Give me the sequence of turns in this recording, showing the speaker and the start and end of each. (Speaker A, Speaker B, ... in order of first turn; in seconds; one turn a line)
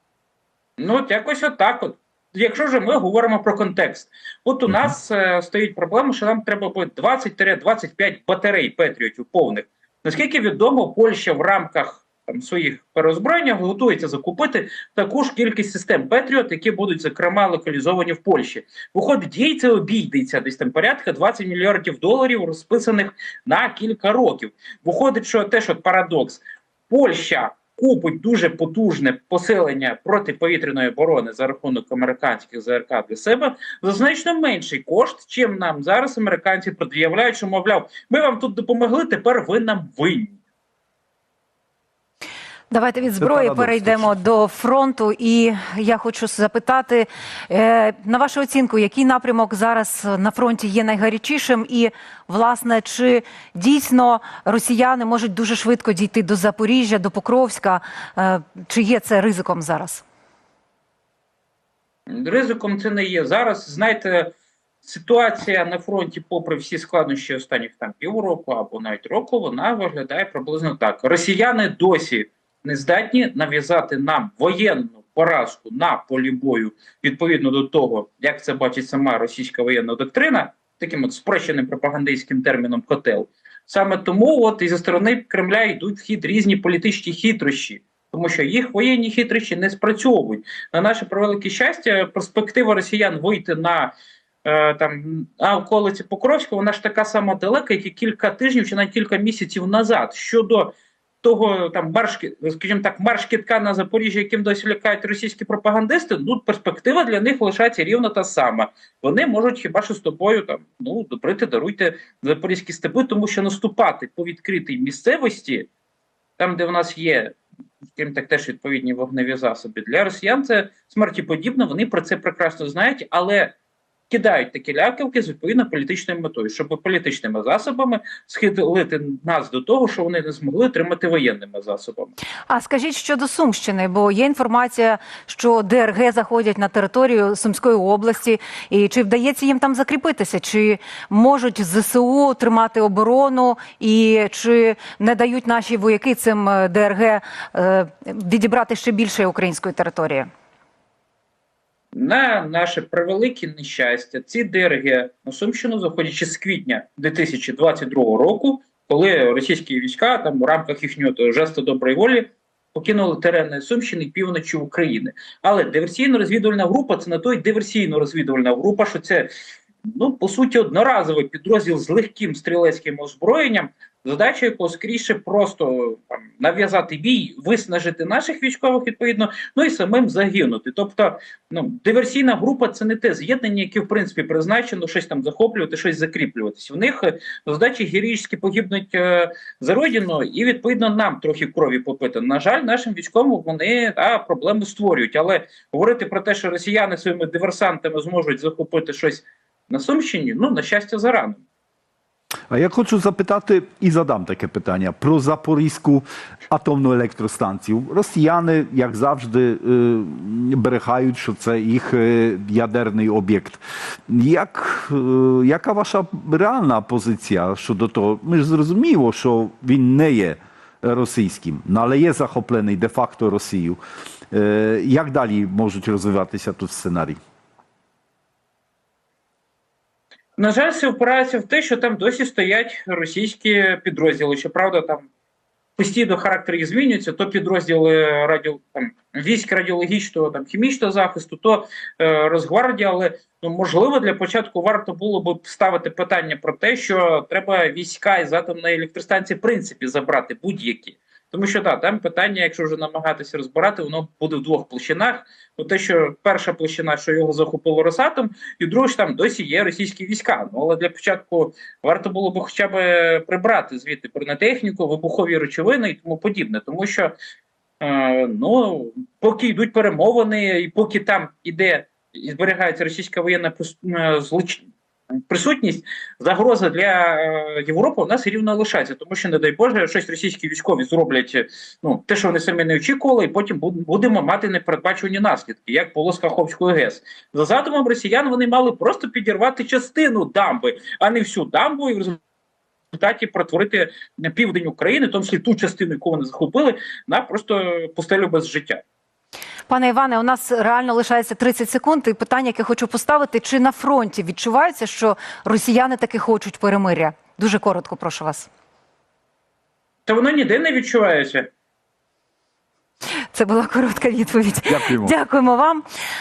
Speaker A: 0.8-40.4
Speaker B: 42.7-60.0
Speaker C: 43.2-44.0
Speaker A: 62.1-64.3
Speaker A: 64.8-93.9
Speaker A: 94.4-115.7
Speaker A: 116.4-117.4
Speaker A: 118.0-123.5
Speaker A: 124.1-132.1
Speaker B: 132.5-150.3
Speaker A: 151.9-169.3
Speaker A: 169.8-201.4
Speaker C: 202.5-223.8
Speaker C: 224.3-227.2
Speaker A: 230.4-235.1
Speaker A: 235.8-267.1
Speaker A: 267.8-274.7
Speaker A: 275.3-292.2
Speaker A: 292.9-298.8
Speaker B: 299.7-308.5
Speaker A: 310.1-311.5
Speaker B: 313.3-315.8
Speaker C: 314.7-315.1